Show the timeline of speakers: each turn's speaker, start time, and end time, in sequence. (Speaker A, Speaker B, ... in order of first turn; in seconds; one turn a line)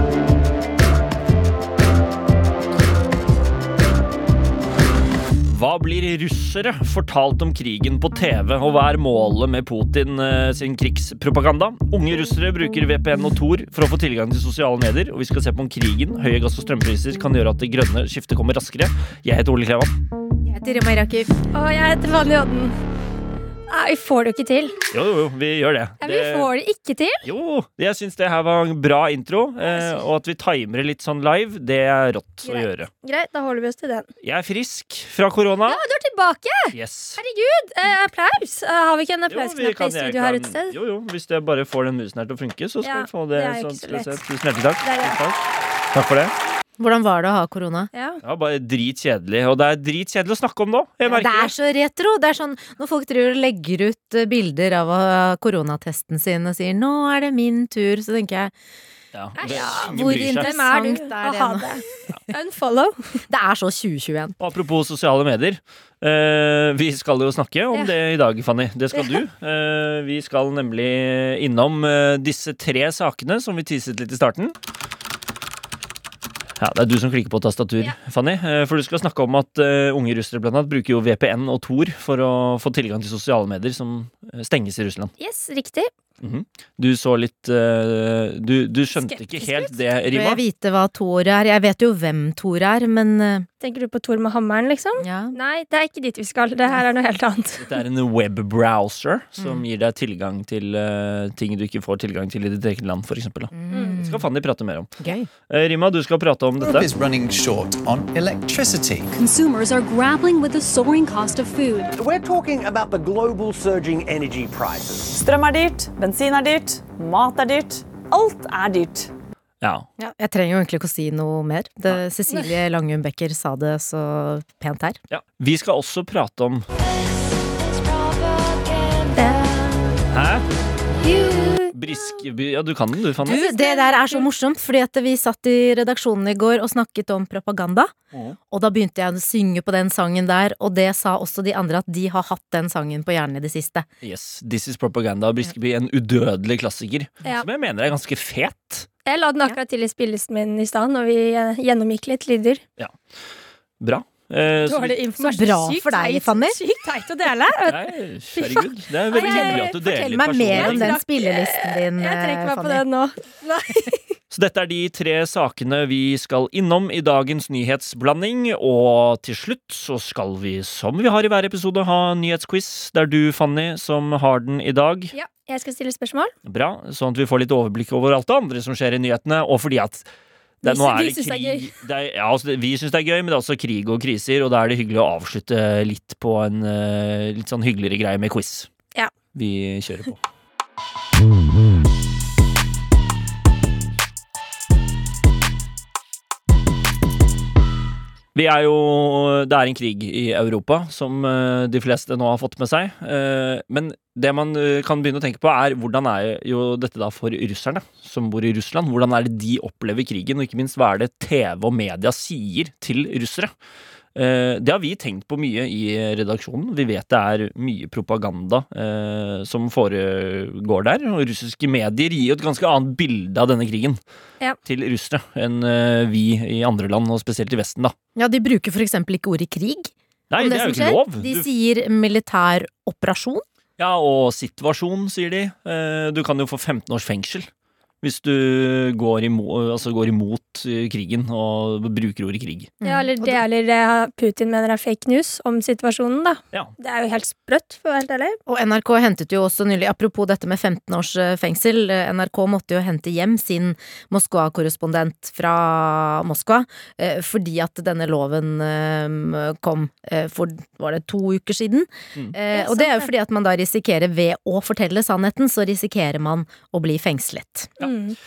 Speaker A: 5.4-19.9
Speaker B: 20.5-21.3
Speaker C: 21.5-22.7
Speaker C: 23.7-24.7
Speaker A: 24.9-26.5
Speaker C: 26.0-27.2
Speaker A: 27.2-32.9
Speaker C: 29.7-30.0
Speaker C: 32.4-34.1
Speaker A: 34.2-35.8
Speaker C: 35.7-40.7
Speaker A: 36.7-37.2
Speaker A: 39.3-46.3
Speaker C: 42.8-44.2
Speaker C: 44.8-45.2
Speaker B: 46.8-47.9
Speaker C: 47.9-48.2
Speaker A: 48.2-51.5
Speaker B: 51.0-58.5
Speaker A: 59.1-60.5
Speaker C: 59.4-63.0
Speaker B: 59.4-61.9
Speaker B: 63.3-64.3
Speaker A: 64.4-74.5
Speaker A: 76.6-85.1
Speaker C: 85.2-85.9
Speaker A: 86.2-90.4
Speaker C: 88.9-89.7
Speaker B: 90.1-93.5
Speaker C: 93.6-97.6
Speaker B: 95.0-95.3
Speaker A: 97.6-104.9
Speaker B: 99.4-99.6
Speaker B: 103.5-104.2
Speaker C: 103.7-104.0
Speaker B: 105.0-105.3
Speaker A: 105.5-106.9
Speaker D: 106.6-109.1
Speaker E: 109.1-112.0
Speaker F: 111.9-115.1
Speaker G: 115.1-119.1
Speaker A: 119.6-119.8
Speaker B: 120.1-125.0
Speaker A: 125.1-126.7
Speaker C: 129.1-129.8
Speaker A: 130.1-130.4
Speaker C: 131.0-131.7
Speaker A: 131.7-133.4
Speaker B: 133.2-137.9
Speaker C: 133.2-134.3
Speaker B: 138.5-143.8
Speaker A: 144.0-148.9
Speaker C: 149.1-152.6
Speaker A: 152.8-153.2
Speaker A: 153.8-155.0
Speaker C: 154.7-157.8
Speaker B: 155.2-156.6
Speaker A: 157.7-161.0
Speaker C: 158.3-159.7
Speaker B: 159.2-162.8
Speaker C: 160.5-164.0
Speaker A: 164.3-175.1
Speaker C: 175.1-176.3
Speaker A: 176.4-180.1
Speaker A: 180.6-188.7
Speaker C: 180.6-181.7
Speaker A: 189.3-190.2
Speaker A: 198.3-213.5
Speaker A: 214.1-224.0
Speaker A: 224.6-227.9
Speaker B: 228.2-233.4
Speaker A: 230.3-231.4
Speaker A: 233.8-237.5
Speaker A: 238.0-242.7
Speaker B: 242.8-243.4
Speaker C: 242.8-248.4
Speaker B: 248.5-267.7
Speaker C: 262.5-263.1
Speaker C: 267.8-268.1